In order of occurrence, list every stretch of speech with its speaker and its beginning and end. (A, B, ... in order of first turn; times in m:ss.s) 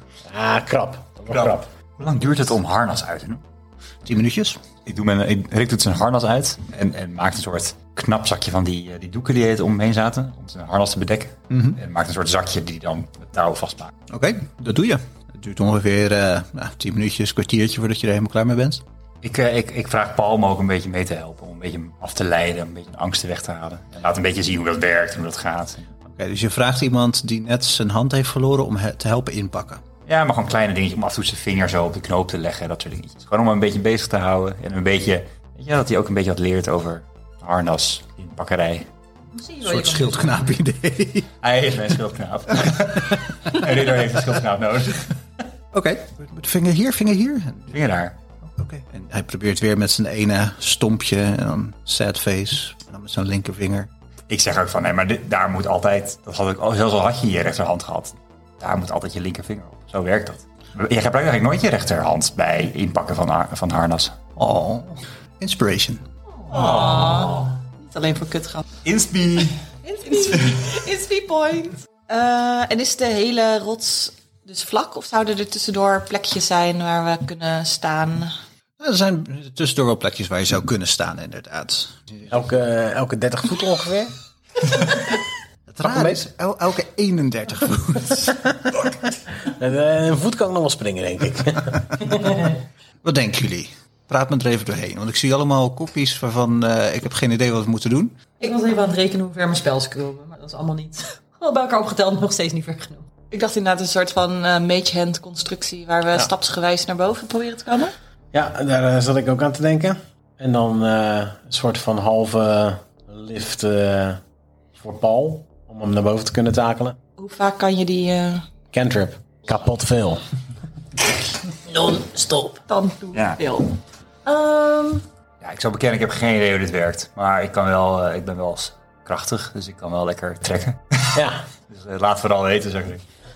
0:00.2-0:01.7 A
0:01.3-0:03.4 B
0:04.0-0:04.6 C
0:04.8-0:13.9 B
0:11.5-0:11.8 C
0:14.1-0:18.8 C
0:19.2-0:25.9 B
0:26.0-0:29.8 C
0:30.0-0:38.9 B
0:39.3-0:40.5 D
0:39.6-0:41.3 C
0:41.4-0:45.2 B
0:45.7-0:47.8 C
0:47.7-0:48.2 B
0:48.4-0:53.9 C
0:54.3-1:04.1 B
1:04.4-1:06.0 C
1:06.5-1:08.6 E
1:06.5-1:07.5 B
1:08.8-1:09.6 B
1:09.8-1:10.4 D
1:10.0-1:18.3 E
1:18.8-1:22.4 C
1:22.3-1:24.1 A
1:25.7-1:28.4 C
1:25.8-1:26.2 A
1:29.4-1:32.5 A
1:33.0-1:38.2 C
1:38.4-1:43.1 D
1:43.3-1:47.9 E
1:48.3-1:54.2 A
1:54.7-1:57.0 A
1:57.2-1:58.4 E
1:58.7-2:00.2 A
2:02.6-2:03.7 E
2:03.1-2:03.4 B
2:04.2-2:05.0 D
2:05.4-2:13.0 B
2:11.1-2:11.4 A